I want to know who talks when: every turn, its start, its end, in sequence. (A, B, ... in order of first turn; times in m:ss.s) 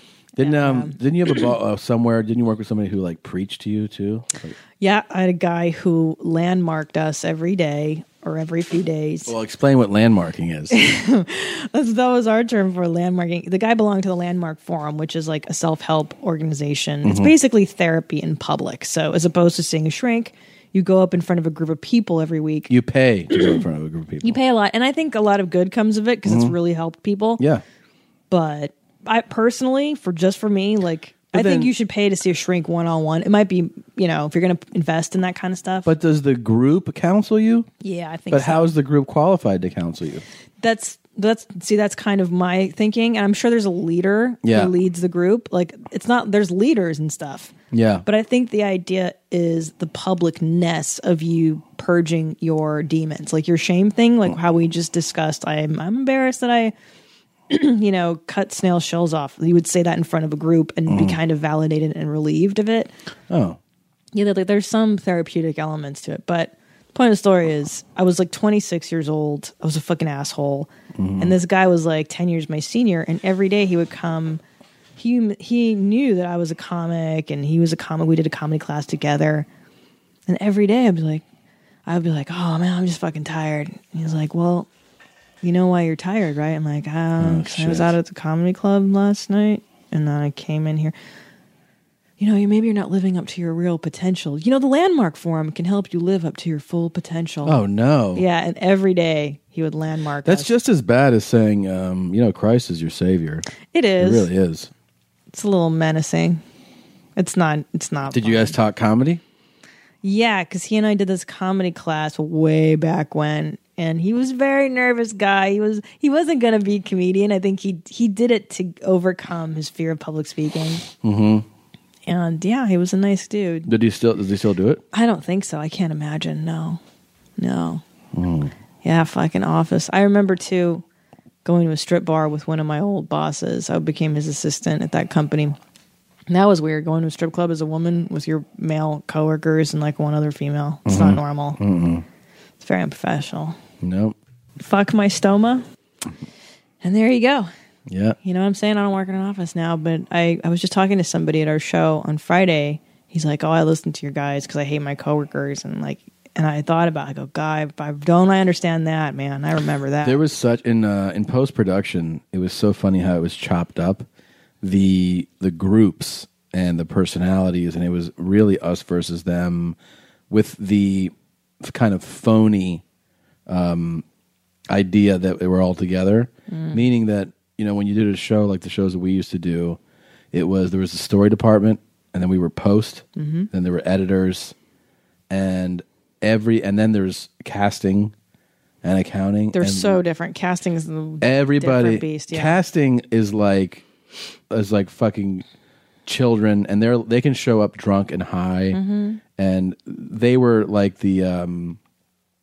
0:00.4-0:04.6 A
0:00.4-0:01.0 B
0:04.8-0:09.3 B
0:09.2-0:10.8 A
0:10.7-0:22.7 B
0:17.0-0:17.3 A
0:22.7-0:24.4 A
0:24.2-0:27.4 B
0:26.2-0:26.6 A
0:28.3-0:35.9 B
0:31.3-0:31.7 A
0:35.8-0:37.7 A
0:37.8-0:38.7 B
0:38.3-0:40.2 A
0:40.6-0:47.5 B
0:44.4-0:44.7 A
0:47.7-0:48.0 A
0:48.0-0:56.7 B
0:57.5-1:02.9 B
1:00.9-1:01.2 A
1:03.3-1:03.6 A
1:04.1-1:14.4 B
1:11.0-1:11.4 A
1:15.0-1:19.5 B
1:20.3-1:21.2 B
1:21.8-1:24.7 B
1:25.4-1:30.9 B
1:27.2-1:27.9 A
1:32.2-1:37.6 B
1:37.4-1:38.2 A
1:38.1-1:40.5 B
1:40.2-1:43.4 A
1:43.7-1:44.3 B
1:44.0-1:44.7 A
1:45.3-1:46.4 B
1:47.2-1:48.6 B
1:48.1-1:49.2 A
1:50.0-2:00.8 B
2:01.0-2:01.4 A
2:02.1-2:03.7 B
2:03.6-2:04.8 A
2:04.9-2:06.8 B
2:07.4-2:07.8 B
2:08.1-2:08.5 A
2:08.8-2:10.8 B
2:11.4-2:15.6 B
2:16.3-2:21.6 B
2:20.8-2:22.0 A
2:22.6-2:23.6 B
2:23.8-2:24.2 A
2:24.6-2:25.6 B
2:26.8-2:27.5 B
2:27.9-2:28.2 A
2:28.2-2:40.2 B
2:40.0-2:44.0 A
2:44.6-2:49.8 A
2:50.3-2:52.8 A
2:53.5-2:54.0 A
2:54.7-2:59.8 A
2:56.5-2:56.8 B
3:00.3-3:04.5 A
3:03.2-3:03.5 B
3:05.3-3:08.1 A
3:08.8-3:10.0 A
3:09.5-3:12.6 B
3:11.2-3:13.8 A
3:14.5-3:15.4 A
3:16.0-3:18.8 A
3:18.7-3:19.2 B
3:19.4-3:21.8 A